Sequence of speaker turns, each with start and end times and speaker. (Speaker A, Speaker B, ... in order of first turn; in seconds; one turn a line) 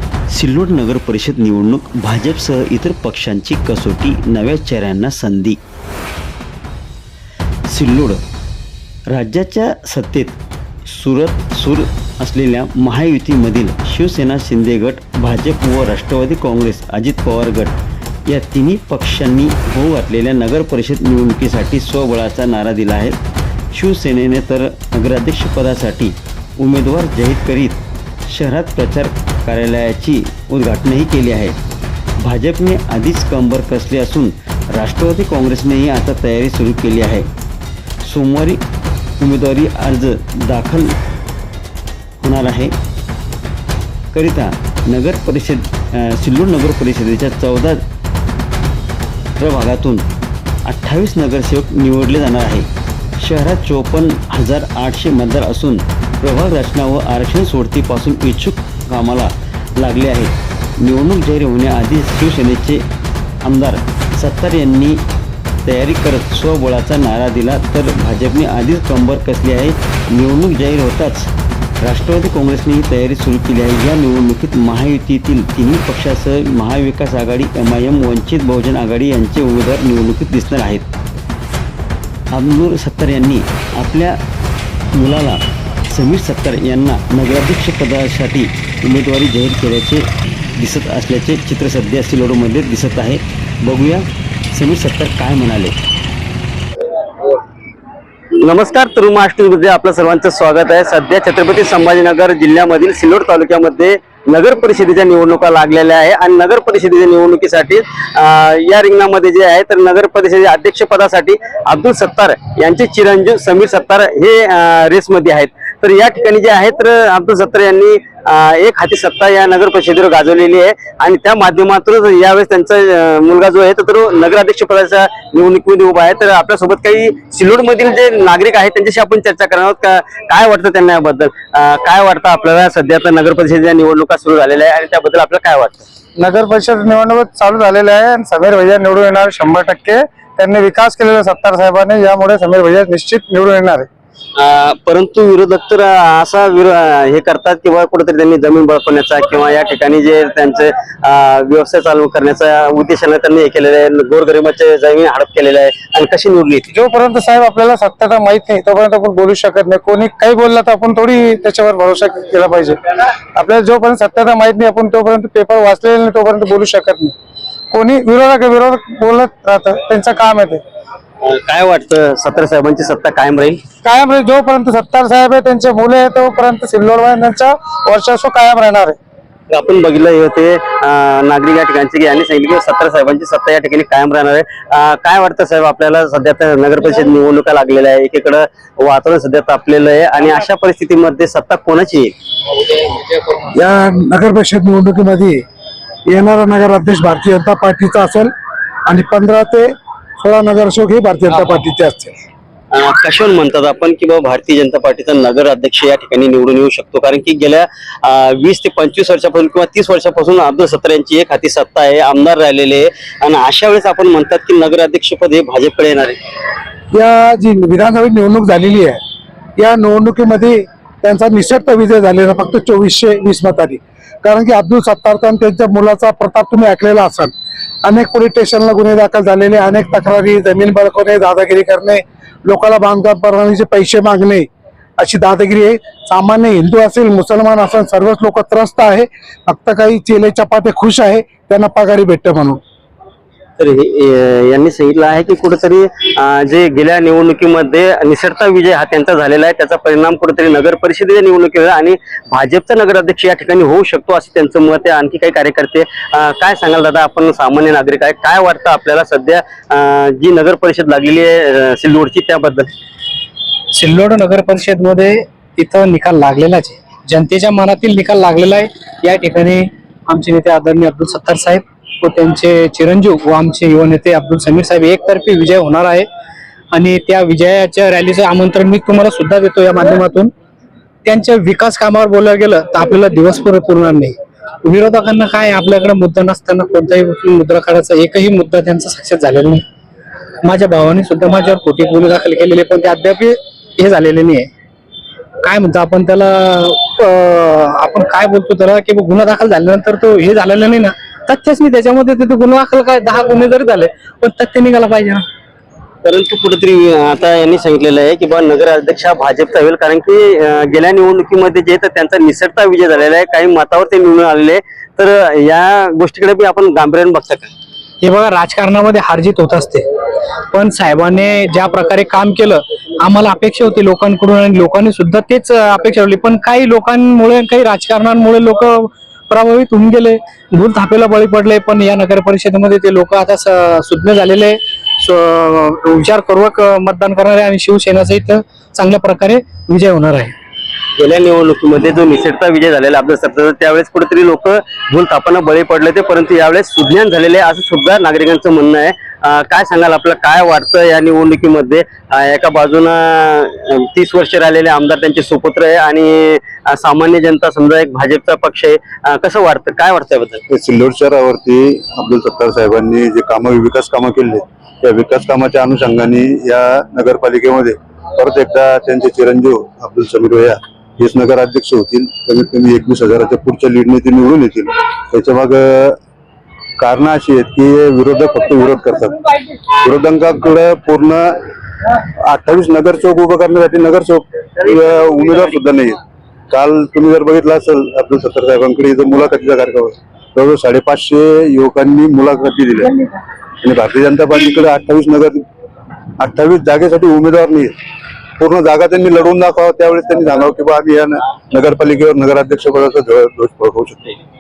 Speaker A: 0.3-5.6
Speaker A: 7.7-8.2
Speaker A: 9.1-17.8
Speaker A: 18.3-23.2
Speaker A: 23.7-31.6
Speaker A: 32.2-37.3
Speaker A: 38.0-38.6
Speaker A: 39.2-40.9
Speaker A: 42.2-42.7
Speaker A: 44.1-47.8
Speaker A: 49.4-50.1
Speaker A: 50.7-52.7
Speaker A: 53.2-62.9
Speaker A: 63.5-65.0
Speaker A: 65.7-71.3
Speaker A: 71.8-80.9
Speaker A: 82.3-84.2
Speaker A: 84.9-90.1
Speaker A: 90.6-95.8
Speaker B: 98.4-135.9
Speaker C: 136.2-143.9
Speaker B: 144.4-156.7
Speaker C: 156.7-162.8
Speaker C: 163.3-167.1
Speaker C: 167.7-170.6
Speaker B: 171.2-173.6
Speaker C: 173.8-179.0
Speaker B: 179.5-192.2
Speaker D: 193.6-195.4
Speaker D: 196.1-198.3
Speaker D: 198.9-202.2
Speaker B: 202.7-216.2
Speaker D: 216.9-219.0
Speaker D: 219.6-227.3
Speaker D: 227.8-242.6
Speaker B: 243.6-262.7
Speaker E: 263.7-276.1
Speaker E: 276.7-280.3
Speaker E: 281.1-289.6
Speaker E: 290.4-294.5
Speaker E: 295.4-305.2
Speaker B: 306.0-317.5
Speaker E: 318.0-319.9
Speaker E: 320.5-340.3
Speaker B: 341.0-360.4
Speaker F: 360.5-376.0
Speaker F: 376.8-379.1
Speaker F: 379.8-381.3
Speaker F: 382.2-386.0
Speaker F: 386.5-392.9
Speaker F: 393.6-395.4
Speaker F: 396.2-397.7
Speaker F: 398.4-404.2